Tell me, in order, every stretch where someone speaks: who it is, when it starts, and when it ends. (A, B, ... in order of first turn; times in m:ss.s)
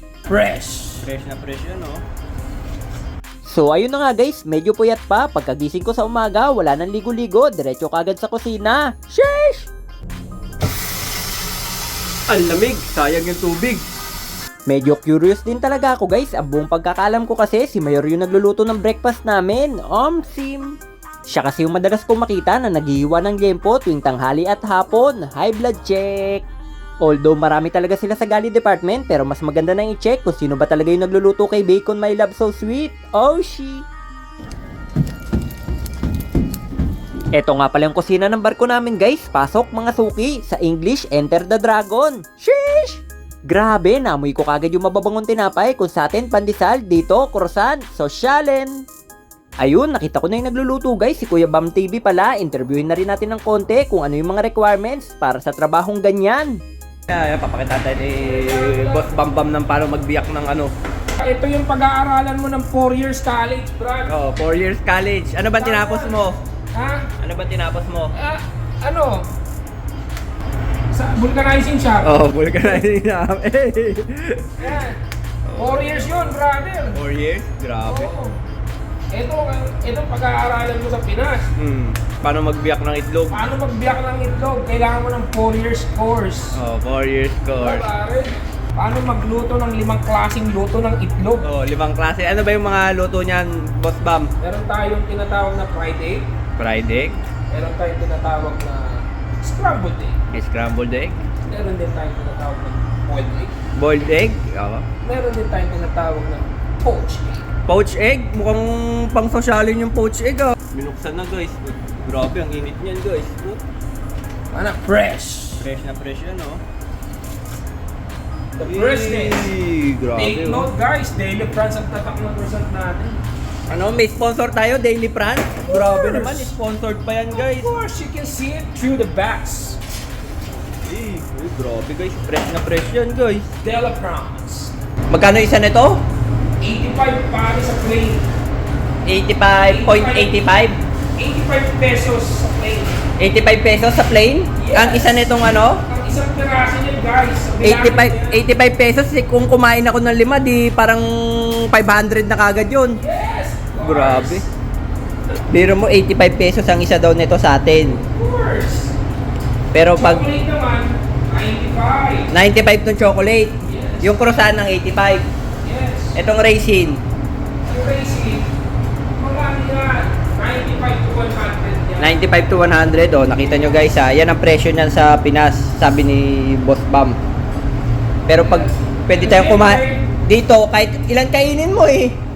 0:00.3-0:01.0 A
0:01.0-0:02.0 B
0:03.4-0:09.7 C
0:12.3-0:13.8 B
0:14.7-0:20.8 C
0:21.3-0:26.4 C
0:27.0-0:33.9 C
0:37.3-0:48.8 C
0:49.6-0:56.6 C
0:57.1-1:00.7 B
0:58.0-0:59.1 A
1:01.2-1:04.1 A
1:04.0-1:06.4 B
1:05.6-1:07.1 A
1:07.2-1:08.1 B
1:08.1-1:09.3 A
1:10.9-1:12.8 A
1:12.0-1:14.6 B
1:14.6-1:15.0 A
1:15.4-1:16.1 B
1:15.6-1:17.0 A
1:16.9-1:18.1 B
1:17.8-1:18.4 A
1:19.1-1:21.5 A
1:21.6-1:23.5 B
1:23.3-1:26.6 A
1:26.6-1:27.9 B
1:27.5-1:31.5 A
1:31.4-1:34.3 B
1:34.4-1:36.3 A
1:36.6-1:37.2 B
1:37.5-1:40.2 A
1:40.3-1:41.2 B
1:41.5-1:43.5 A
1:43.7-1:44.8 B
1:45.0-1:47.4 A
1:47.7-1:53.6 B
1:54.5-1:55.7 A
1:55.6-1:56.6 B
1:58.6-1:59.5 A
1:58.6-2:00.7 B
2:00.1-2:03.2 A
2:03.7-2:07.7 B
2:05.6-2:06.5 A
2:07.3-2:09.8 A
2:10.8-2:13.5 B
2:13.6-2:14.7 A
2:15.1-2:16.0 B
2:16.6-2:18.2 A
2:19.0-2:20.8 B
2:19.6-2:20.5 A
2:21.2-2:23.0 A
2:23.2-2:25.8 B
2:24.6-2:28.4 A
2:27.6-2:33.0 B
2:33.0-2:34.5 A
2:33.8-2:34.5 B
2:35.5-2:38.0 B
2:38.0-2:39.0 A
2:39.7-2:40.2 B
2:40.0-2:42.3 A
2:42.3-2:45.2 B
2:43.6-2:44.3 A
2:45.6-2:46.2 A
2:46.2-2:47.0 B
2:47.7-2:48.5 A
2:49.2-2:52.2 A
2:52.0-2:57.2 B
2:53.4-2:53.8 A
2:58.3-3:02.2 B
2:58.3-3:00.1 A